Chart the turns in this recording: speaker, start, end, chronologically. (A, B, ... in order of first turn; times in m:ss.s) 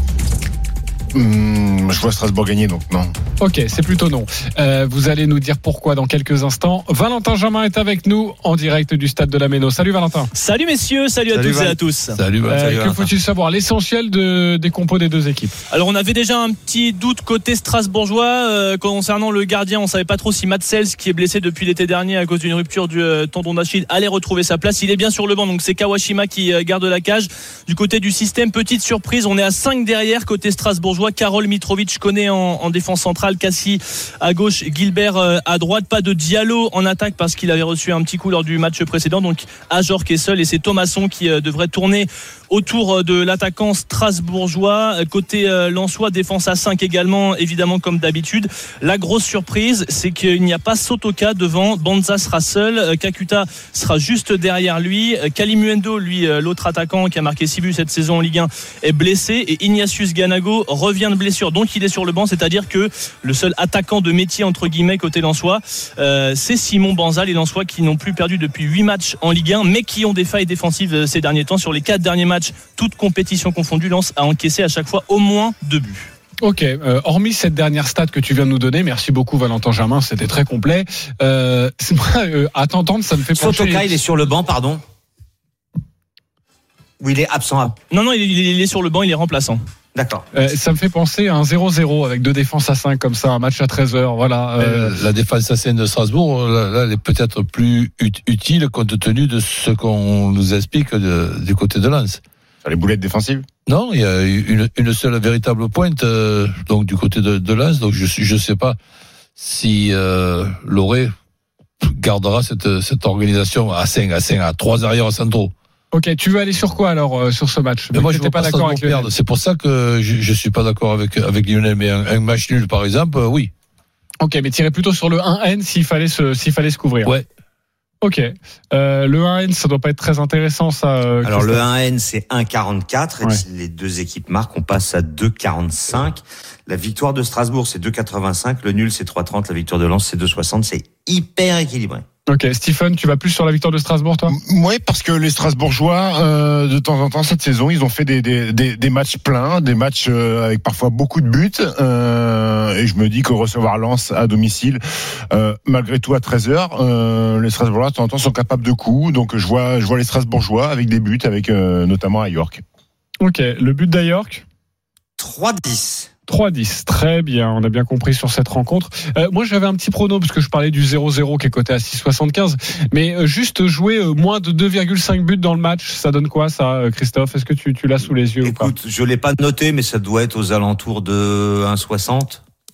0:01.1-0:03.1 A
0:03.4-0:10.3 B
0:10.3-0:12.2 C
0:11.3-0:11.8 D
0:12.1-0:12.9 E
0:12.4-0:15.6 B
0:12.5-0:13.0 D
0:15.7-1:16.1 C
1:16.4-1:23.9 B
1:23.4-1:24.8 D
1:27.0-1:27.8 D
1:27.9-1:29.6 C
1:29.9-1:30.2 D
1:30.3-1:35.0 B
1:34.6-1:42.2 E
1:42.6-1:43.4 A
1:43.6-1:48.8 E
1:49.4-1:51.1 E
1:51.8-1:55.5 E
1:55.9-1:59.1 B
1:57.9-2:03.5 E
2:04.2-2:07.1 B
2:08.0-2:11.6 B
2:11.2-2:22.0 D
2:22.3-2:24.3 B
2:24.3-2:42.6 A
2:43.2-2:44.4 B
2:45.2-2:46.1 D
2:46.3-2:58.7 B
2:58.4-3:02.4 D